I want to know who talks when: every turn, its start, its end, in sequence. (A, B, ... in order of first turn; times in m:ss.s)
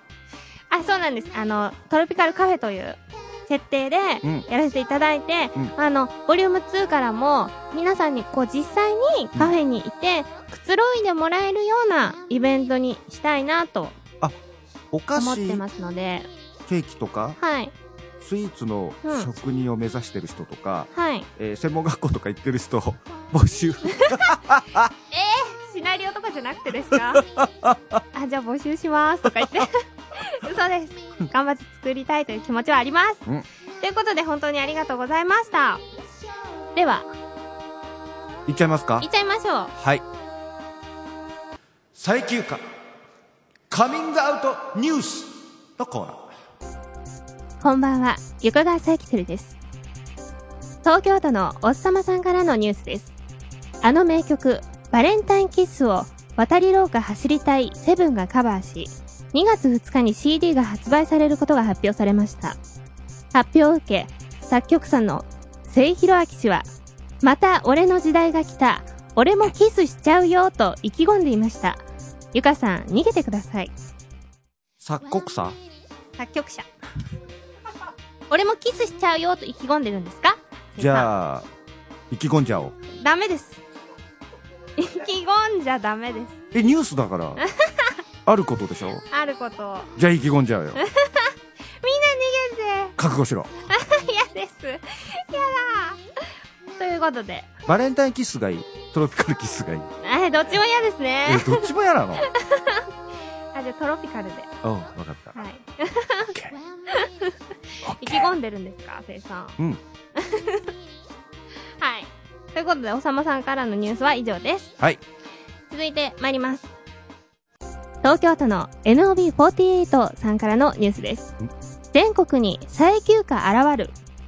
0:00.7-0:14.0 A
0:14.9-0:15.6 B
0:15.1-0:16.3 A
0:16.7-0:17.4 B
0:17.4-0:17.7 A
0:18.2-0:24.9 B
0:19.0-0:19.3 A
0:20.9-0:21.3 A
0:23.9-0:24.3 A
0:25.1-0:27.2 A
0:27.2-0:27.8 B
0:28.1-0:33.2 A
0:33.8-0:35.8 A
0:36.8-0:37.1 A
0:38.5-0:39.0 B
0:39.0-0:39.7 A
0:39.8-0:40.0 B
0:41.9-0:42.6 B
0:43.7-0:46.3 B
0:47.6-0:49.6 A
0:50.8-0:53.1 A
0:53.8-1:02.6 A
1:03.3-1:06.7 A
1:07.2-1:11.8 A
1:12.3-1:13.7 A
1:14.8-1:15.6 B
1:16.2-1:16.7 A
1:18.3-1:21.1 A
1:20.8-1:21.5 B
1:22.1-1:22.7 B
1:22.9-1:23.6 A
1:24.8-1:26.4 A
1:26.5-1:27.4 B
1:27.5-1:27.9 A
1:28.2-1:29.0 B
1:29.1-1:29.9 A
1:30.0-1:30.8 B
1:30.8-1:33.0 A
1:33.0-1:33.5 B
1:33.7-1:36.0 A
1:36.8-1:37.5 A
1:37.6-1:39.9 B
1:40.0-1:42.8 A
1:41.2-1:42.3 B
1:43.5-1:44.5 A
1:44.6-1:45.4 B
1:45.3-1:46.4 A
1:46.9-1:47.4 A
1:47.8-1:48.3 B
1:48.0-1:49.6 A
1:50.2-1:50.6 A
1:51.8-1:54.7 A
1:55.7-1:56.7 A
1:58.0-2:01.3 A
2:01.9-2:03.9 A